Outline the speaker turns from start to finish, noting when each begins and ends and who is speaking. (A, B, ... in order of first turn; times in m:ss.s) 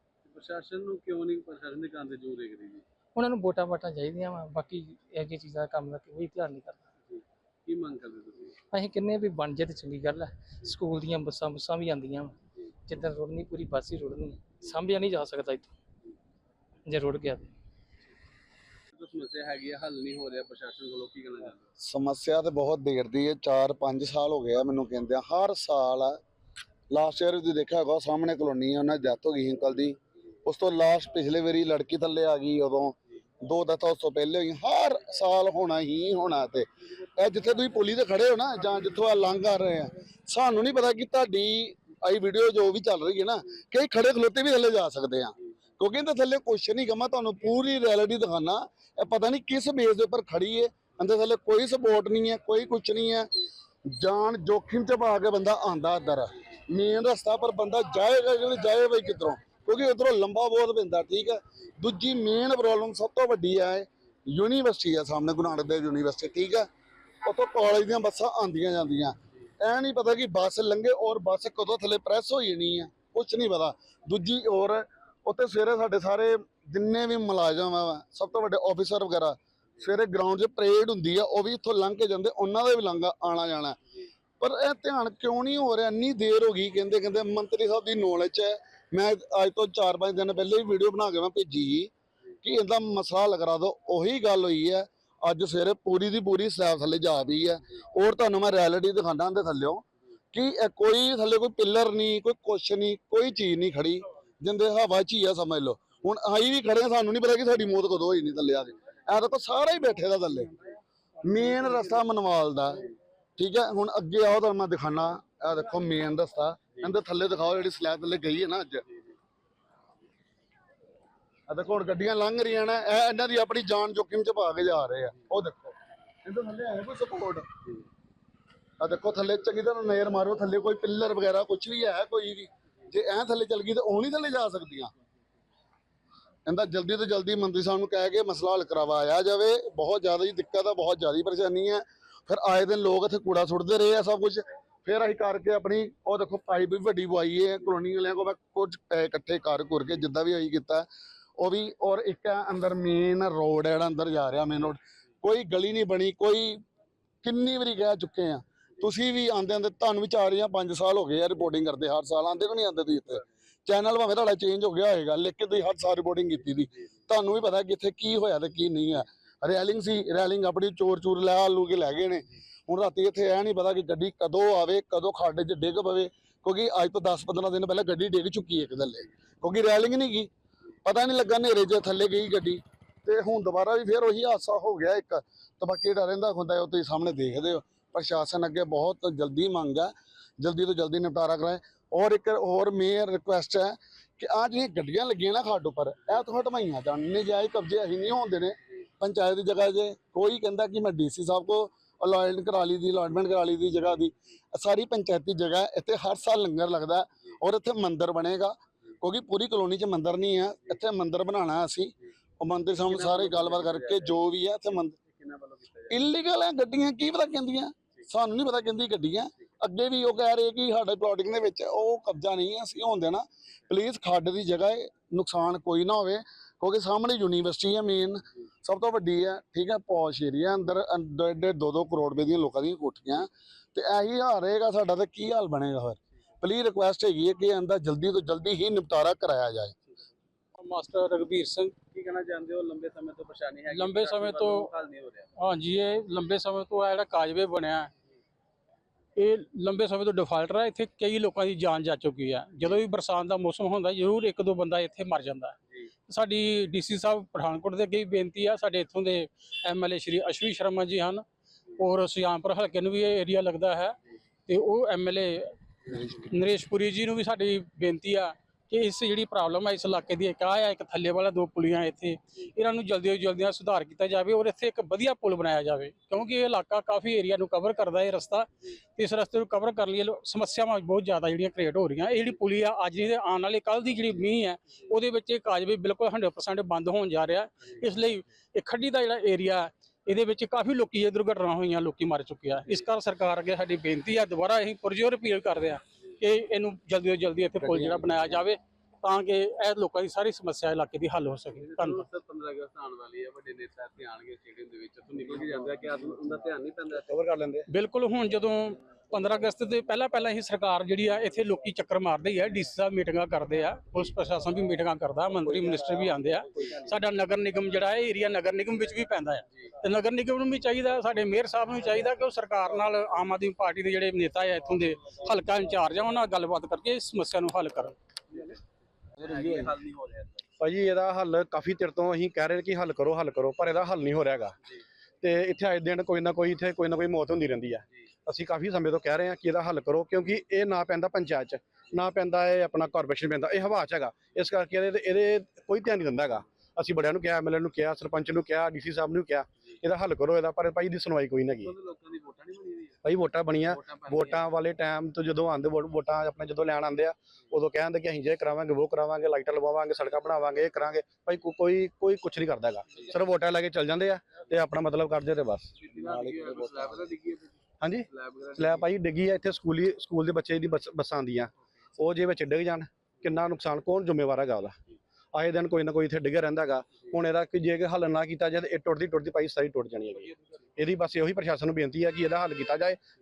0:00.2-0:02.8 A
0:03.2-0:06.9 B
0:07.1-0:08.6 A
0:08.7-0:12.3 B
0:12.9-0:15.7 B
0:16.9-0:17.5 B
0:18.9-0:21.6 A
0:21.8-0:26.2 C
0:26.9-0:53.3 C
0:53.9-1:06.7 C
1:07.2-1:23.8 C
1:24.4-1:31.9 C
1:32.4-1:50.6 C
1:51.2-1:52.8 C
1:53.4-1:58.8 C
2:01.5-2:07.5 C
2:08.8-2:14.9 C
2:16.5-2:30.9 C
2:31.4-2:36.6 C
2:37.2-3:00.3 C
3:00.8-3:35.0 C
3:32.9-3:34.2 A
3:35.0-3:36.0 A
3:35.9-3:59.8 C
4:00.5-4:01.8 D
4:01.9-4:05.3 A
4:03.7-4:04.6 D
4:05.4-4:07.9 D
4:09.2-4:15.6 D
4:16.1-4:21.2 D
4:21.8-4:24.0 D
4:24.5-5:02.0 D
5:01.5-5:07.1 A
5:07.0-5:07.7 E
5:07.7-5:27.9 D
5:29.2-5:30.4 A
5:30.6-5:34.5 E
5:35.2-5:51.7 E
5:51.6-5:53.0 A
5:53.0-6:06.9 E
5:53.7-5:54.4 A
6:05.8-6:07.5 A
6:08.1-6:08.9 A
6:08.6-6:14.8 E
6:15.3-6:23.0 E